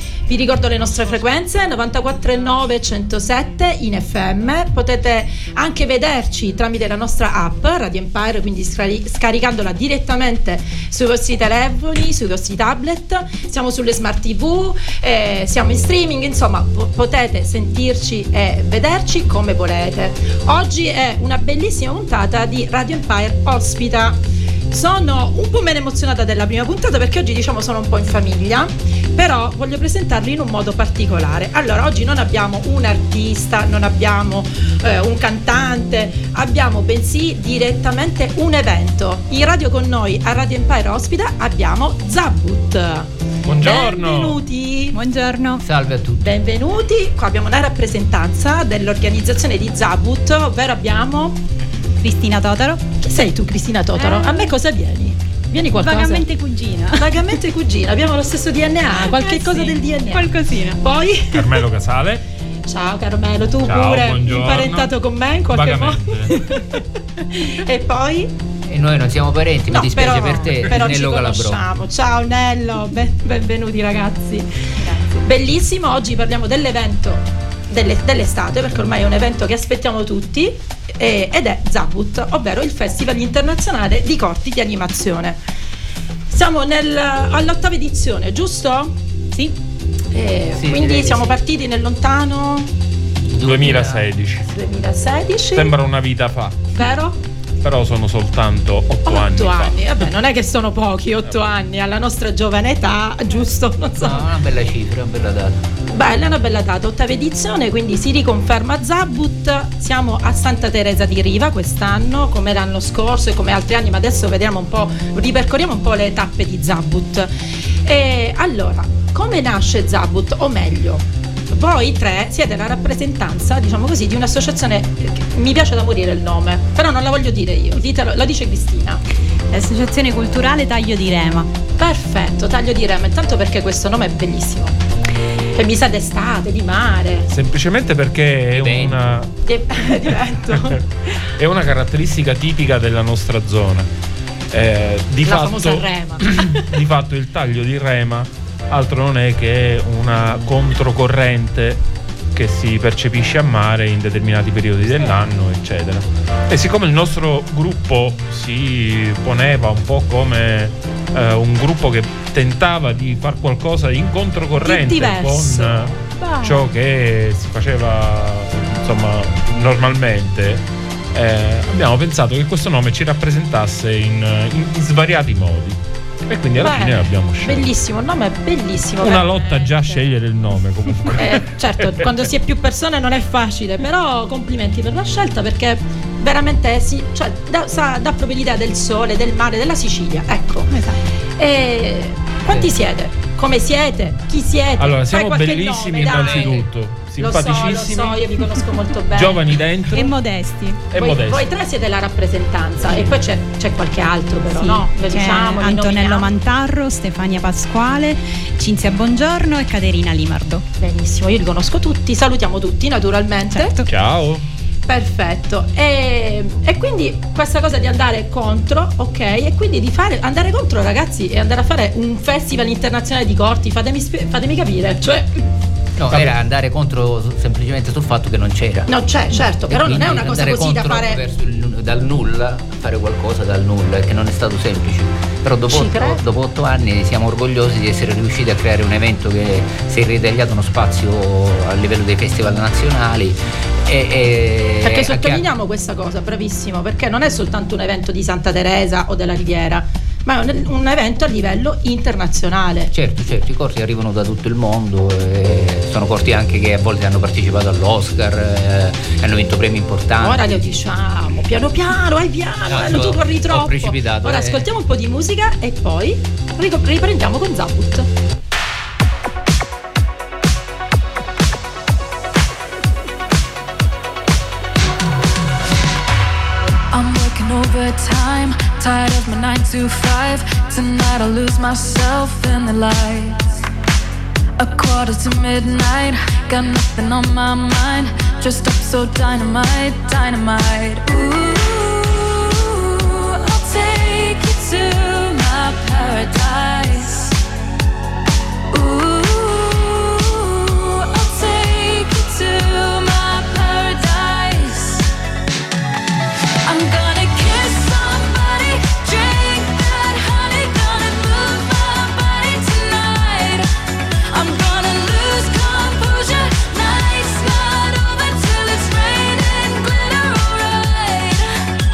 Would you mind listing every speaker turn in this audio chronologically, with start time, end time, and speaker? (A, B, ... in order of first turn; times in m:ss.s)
0:00.3-0:24.2 A
0:24.7-0:43.1 A
0:43.4-0:44.4 B
0:43.6-0:45.0 A
0:44.9-0:45.6 C
0:45.6-0:46.4 D
0:46.2-0:51.4 A
0:52.0-0:52.8 C
0:53.0-0:56.2 A
0:54.0-0:54.5 C
0:55.8-0:57.3 C
0:57.0-1:01.6 A
0:59.1-1:00.8 C
1:01.3-1:02.2 B
1:02.7-1:08.3 A
1:03.6-1:04.9 B
1:05.5-1:06.4 B
1:08.7-1:11.6 D
1:09.7-1:25.4 A
1:26.3-1:29.0 A
1:30.1-1:32.7 A
1:30.6-1:31.3 D
1:33.3-1:34.1 D
1:33.4-1:34.5 B
1:34.5-1:35.8 A
1:35.5-1:36.7 B
1:36.7-1:37.2 A
1:37.6-1:39.8 B
1:39.1-1:44.3 A
1:44.0-1:45.6 D
1:45.9-1:57.3 A
1:57.9-2:09.0 A
2:09.5-2:11.5 C
2:11.8-2:14.8 A
2:15.5-2:17.3 A
2:17.3-2:19.3 B
2:18.6-2:19.2 D
2:19.5-2:20.8 A
2:20.0-2:23.9 B
2:24.5-2:31.8 B
2:25.2-2:26.7 A
2:32.3-2:57.7 B
2:44.6-2:46.6 A
2:56.6-3:00.0 A
2:59.0-3:02.1 B
3:01.2-3:10.7 A
3:10.7-3:11.0 C
3:11.4-3:16.7 A
3:14.8-3:18.2 B
3:16.0-3:16.6 D
3:17.2-3:19.6 A
3:19.1-3:20.1 B
3:19.9-3:20.8 C
3:20.9-3:21.5 B
3:21.0-3:26.3 A
3:24.5-3:30.6 C
3:30.8-3:33.7 A
3:33.5-3:33.9 C
3:33.9-3:34.4 B
3:34.9-3:45.4 A
3:46.0-3:48.9 D
3:48.9-3:51.2 A
3:49.7-4:05.5 D
3:55.7-3:56.2 A
4:04.8-4:12.9 A
4:12.9-4:20.6 D
4:20.2-4:28.1 A
4:22.7-4:24.7 D
4:36.9-4:43.6 E
4:44.6-4:57.4 E
4:58.7-5:05.1 E
5:06.6-5:13.7 E
5:14.3-5:21.5 E